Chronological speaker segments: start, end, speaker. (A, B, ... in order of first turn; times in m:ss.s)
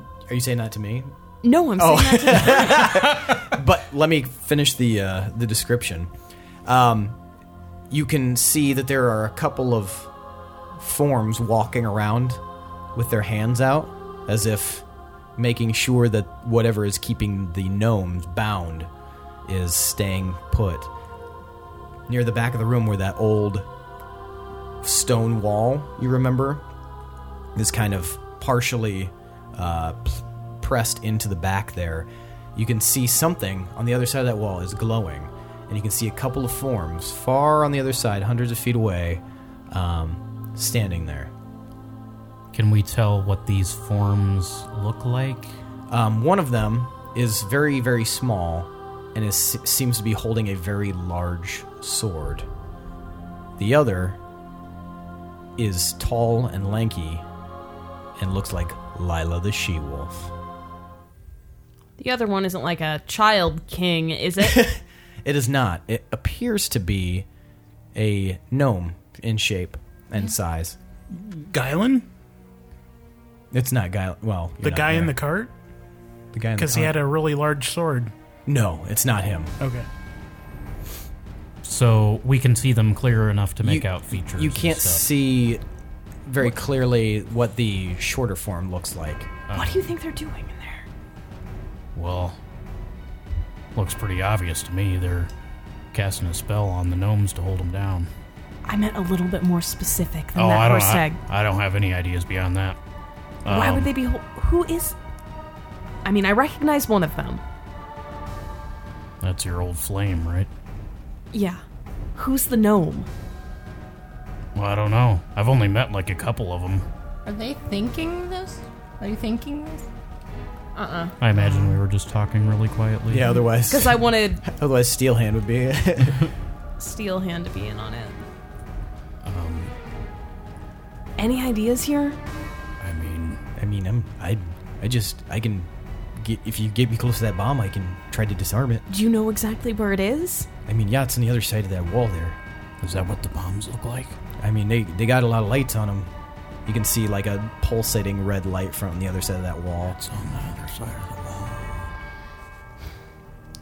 0:00.3-0:01.1 A
0:01.4-0:03.1 B
0:01.8-0:06.1 A
0:06.6-0:07.2 A
0:07.9-0:10.1 A
0:10.8-0:12.4 A
0:12.9-0:14.8 A
0:15.4-0:18.9 A
0:19.4-0:20.9 A
0:22.1-0:23.7 A
0:24.8-0:26.6 A
0:27.5-0:41.3 A
0:42.5-0:45.5 C
0:45.9-0:52.5 A
0:53.6-0:54.2 A
0:55.6-0:57.2 A
0:58.2-1:00.3 A
1:02.0-1:04.6 B
1:04.4-1:07.3 A
1:07.9-1:10.8 A
1:11.1-1:12.0 D
1:13.5-1:15.1 A
1:14.6-1:15.5 D
1:16.3-1:17.0 A
1:16.6-1:18.1 D
1:18.5-1:19.5 A
1:19.6-1:19.9 D
1:21.6-1:25.0 C
1:23.6-1:25.6 A
1:26.2-1:29.3 A
1:29.5-1:29.9 C
1:29.5-1:30.9 B
1:31.9-1:32.4 C
1:33.7-1:35.3 C
1:35.9-1:38.1 C
1:38.6-1:41.2 B
1:40.3-1:42.8 C
1:43.4-1:43.9 C
1:43.4-1:45.0 B
1:46.0-1:47.4 B
1:49.2-1:50.5 C
1:51.3-1:51.6 B
1:52.1-1:53.1 B
1:54.5-1:56.8 C
1:57.2-1:59.8 E
2:00.7-2:01.2 B
2:01.2-2:03.4 C
2:03.1-2:06.3 A
2:03.7-2:04.4 B
2:06.8-2:08.2 B
2:09.2-2:09.7 C
2:11.2-2:12.2 B
2:12.8-2:13.4 C
2:13.6-2:18.8 A
2:18.9-2:20.5 B
2:20.6-2:22.4 A
2:22.8-2:24.2 C
2:24.4-2:26.1 A
2:26.6-2:30.0 A
2:29.9-2:31.9 C